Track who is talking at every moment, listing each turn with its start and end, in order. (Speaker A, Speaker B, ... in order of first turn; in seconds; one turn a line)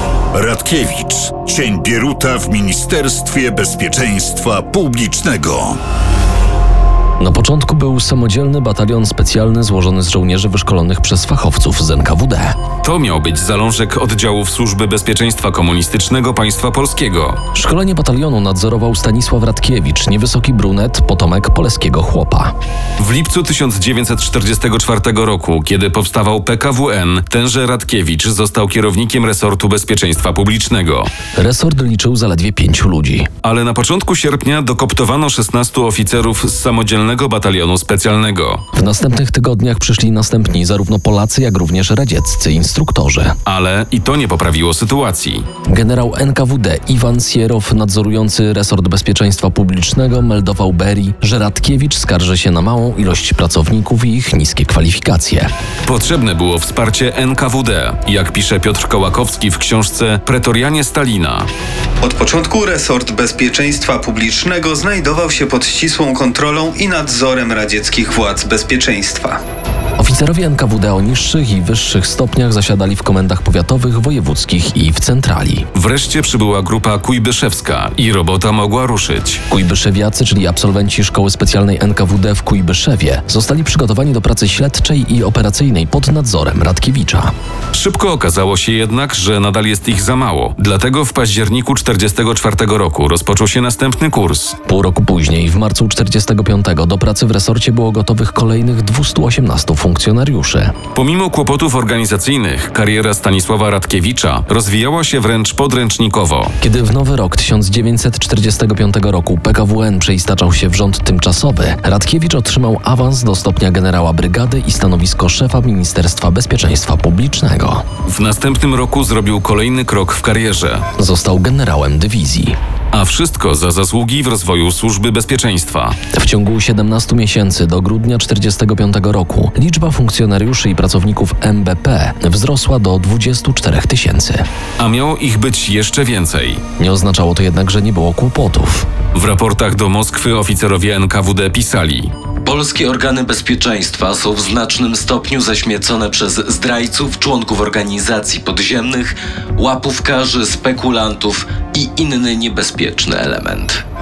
Speaker A: 0.3-5.8
Speaker B: 7.2-12.6
Speaker C: 12.8-17.4
Speaker B: 17.5-22.5
Speaker C: 23.0-31.1
Speaker B: 31.3-33.3
Speaker C: 33.4-38.6
Speaker B: 38.7-43.4
Speaker C: 43.5-45.5
Speaker B: 45.7-55.5
Speaker C: 55.8-61.5
Speaker D: 62.0-69.4
Speaker B: 70.0-75.7
Speaker C: 75.7-79.4
Speaker B: 79.5-87.3
Speaker C: 87.7-94.5
Speaker B: 94.7-100.8
Speaker C: 100.9-106.5
Speaker B: 106.6-117.8
Speaker C: 118.0-120.8
Speaker B: 121.0-122.6
Speaker C: 122.9-126.0
Speaker B: 126.1-134.5
Speaker C: 134.8-136.6
Speaker B: 136.8-138.9
Speaker C: 139.1-142.1
Speaker E: 142.4-153.8